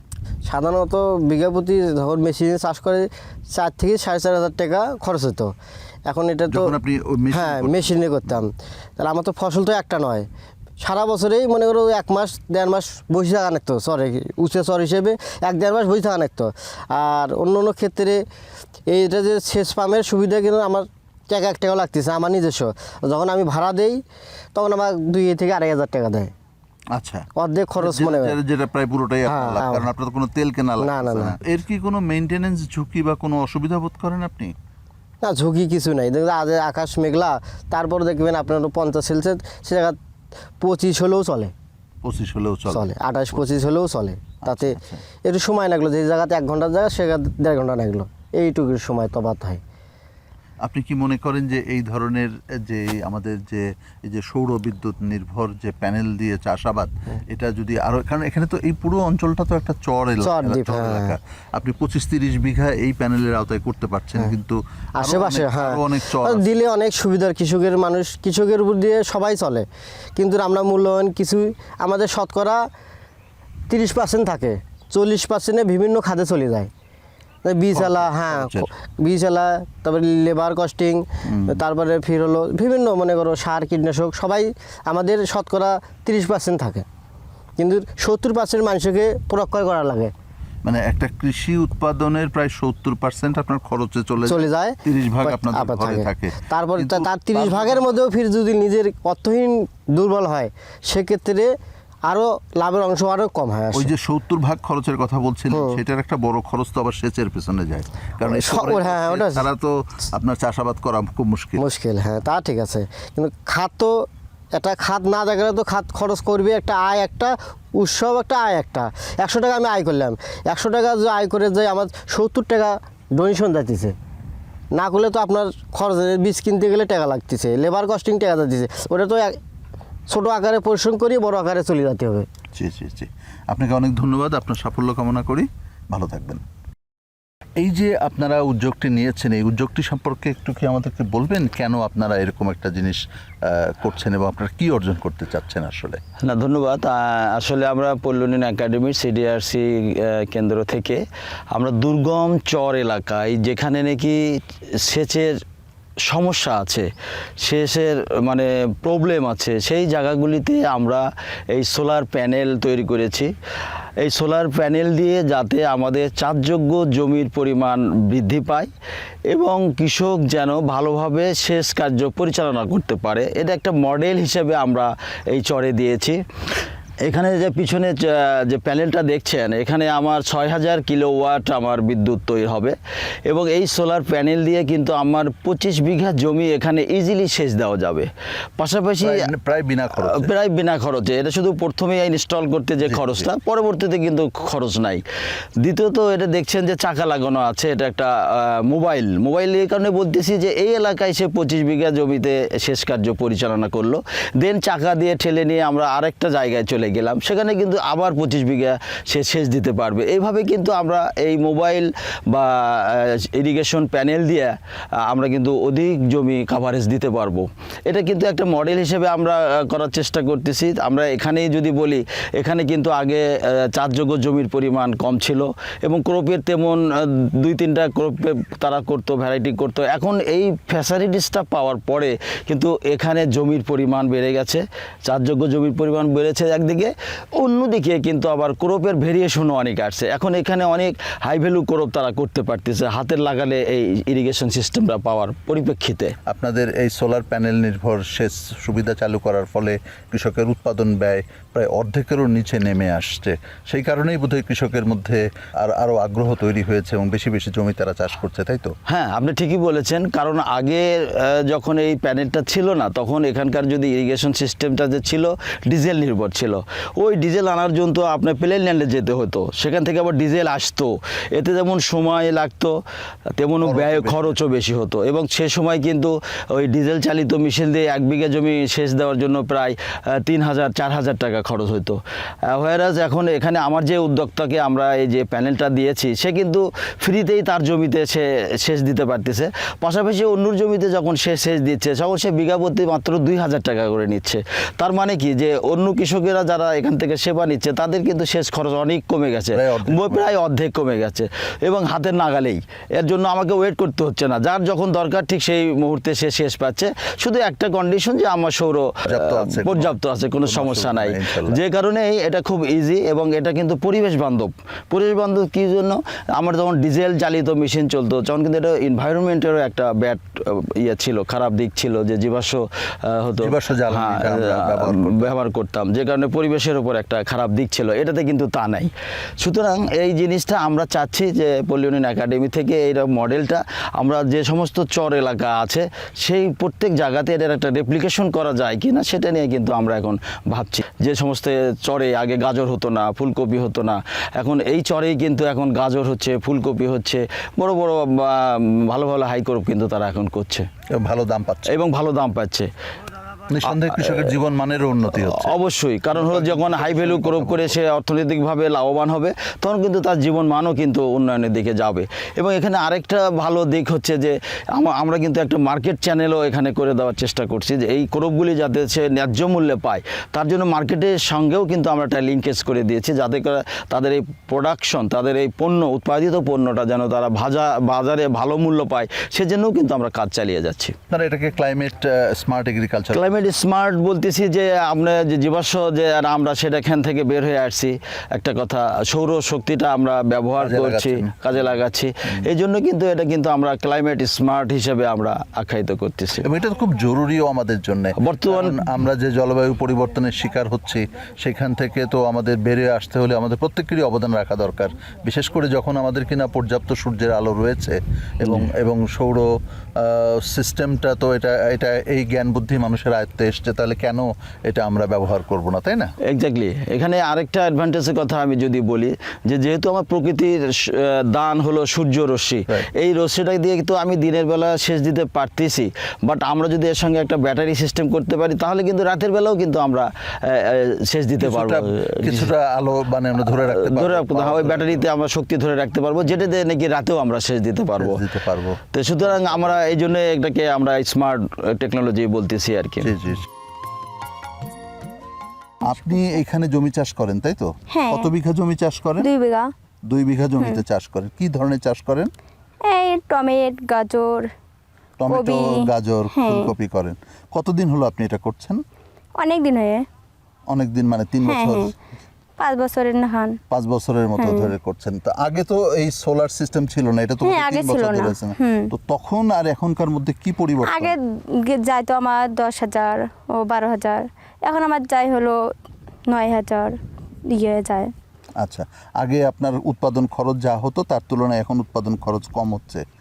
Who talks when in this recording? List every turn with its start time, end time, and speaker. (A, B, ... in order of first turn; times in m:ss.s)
0:00.4-0:05.5 A
0:06.1-0:06.7 A
0:06.5-0:08.3 B
0:07.3-0:10.3 A
0:10.8-0:18.2 A
0:18.9-0:24.0 A
0:24.5-0:26.3 A
0:26.9-0:27.3 B
0:27.4-0:28.4 A
0:27.8-0:34.5 B
0:29.3-0:29.9 A
0:30.8-0:31.3 A
0:35.2-0:40.0 A
0:40.6-0:41.5 A
0:42.0-0:42.9 B
0:42.7-0:49.6 A
0:44.4-0:45.0 B
0:50.6-1:06.5 B
1:00.2-1:01.1 A
1:05.0-1:09.6 A
1:10.2-1:12.6 A
1:13.7-1:16.7 A
1:17.4-1:26.8 A
1:17.7-1:18.7 B
1:21.3-1:21.6 B
1:27.6-1:30.1 A
1:30.6-1:37.9 B
1:34.2-1:41.5 A
1:42.1-1:43.9 A
1:43.7-1:51.6 B
1:45.5-1:45.8 A
1:48.2-1:49.5 A
1:51.6-2:04.0 A
2:04.7-2:09.4 A
2:10.1-2:12.2 A
2:12.5-2:16.4 B
2:17.6-2:26.0 B
2:26.2-2:35.4 C
2:36.1-2:36.9 C
2:37.4-2:43.3 C
2:44.0-2:48.7 C
2:49.3-2:56.2 C
2:57.0-3:02.8 C
3:03.3-3:09.3 C
3:09.0-3:10.3 B
3:10.0-3:15.0 C
3:12.8-3:13.2 B
3:15.6-4:06.1 C
4:06.3-4:18.7 B
4:18.9-4:32.8 C
4:33.4-4:42.0 C
4:33.6-4:34.4 B
4:42.5-5:50.7 C
4:59.5-5:00.2 B
5:09.1-5:09.9 B
5:10.4-5:11.6 B
5:23.4-5:25.3 B
5:50.9-5:51.7 B
5:51.7-5:52.7 C
5:53.5-5:55.6 B
5:53.6-5:54.4 C
5:55.1-6:20.9 C
5:56.1-5:57.8 B
6:21.1-6:23.3 B
6:23.1-6:36.5 C
6:30.6-6:31.6 B
6:36.4-6:56.1 B
6:38.2-6:38.9 C
6:56.3-7:12.5 C
7:11.4-7:15.0 B
7:13.4-7:18.2 C
7:18.0-7:18.8 B
7:18.9-7:23.1 C
7:23.0-7:23.4 B
7:25.8-7:29.3 B
7:27.9-7:28.3 D
7:29.2-7:29.7 D
7:30.1-7:32.3 B
7:32.8-7:34.5 D
7:35.2-7:38.8 B
7:35.3-7:36.7 D
7:39.4-7:40.0 D
7:40.7-7:41.9 B
7:41.4-7:41.9 D
7:42.6-7:43.6 D
7:43.7-7:51.2 B
7:44.4-7:44.7 D
7:47.4-7:48.9 D
7:50.9-7:55.6 D
7:56.3-7:57.0 D
7:57.5-7:58.1 D
7:58.6-8:03.0 B